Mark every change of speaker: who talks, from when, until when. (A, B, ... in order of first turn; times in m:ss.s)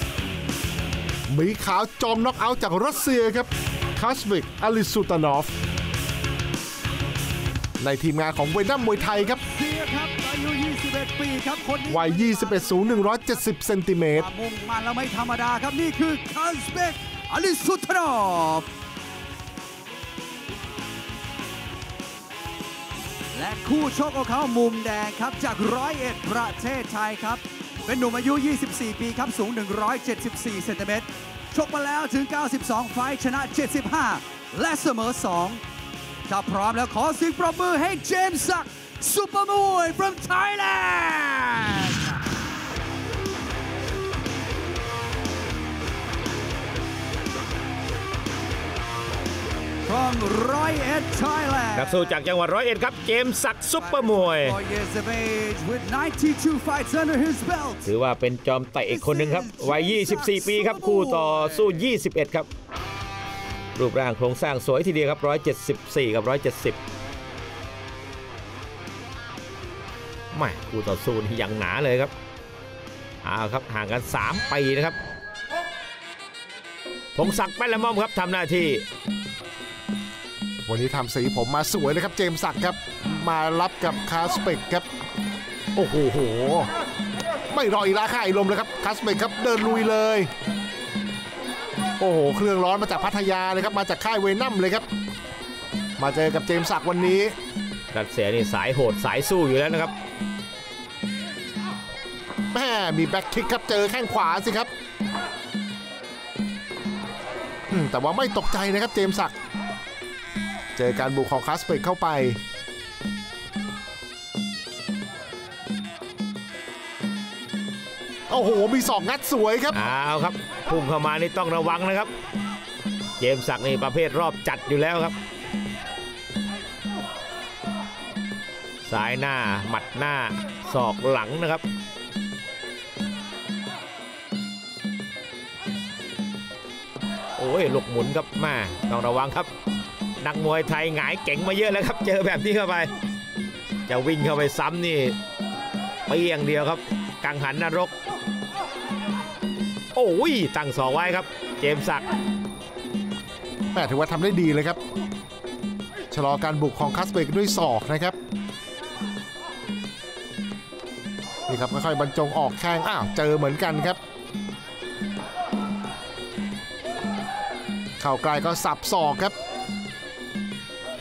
0:01.3-0:05.5 A
0:07.8-0:09.4 A
0:09.0-0:13.1 B
0:11.9-0:14.3 A
0:14.2-0:18.7 B
0:23.3-0:35.6 B
0:36.3-0:42.2 B
0:49.8-0:52.2 B
0:51.8-0:54.6 C
0:53.8-0:57.9 B
0:57.8-1:02.5 C
0:58.9-1:01.8 B
1:03.8-1:06.8 C
1:10.3-1:12.1 C
1:13.2-1:15.0 C
1:17.2-1:18.8 C
1:20.6-1:24.9 A
1:25.8-1:26.7 A
1:27.5-1:30.3 A
1:32.0-1:34.8 A
1:36.0-1:37.4 A
1:37.9-1:39.9 C
1:42.5-1:44.7 A
1:47.7-1:49.3 A
1:50.8-1:52.4 A
1:58.3-1:59.8 A
1:59.7-2:02.1 C
2:03.2-2:05.2 C
2:08.8-2:11.6 C
2:17.4-2:19.5 C
2:20.2-2:22.9 C
2:23.9-2:25.2 C
2:26.1-2:27.9 C
2:30.0-2:32.0 C
2:33.7-2:34.8 A
2:36.1-2:38.2 A
2:41.5-2:44.0 A
2:48.0-2:49.4 A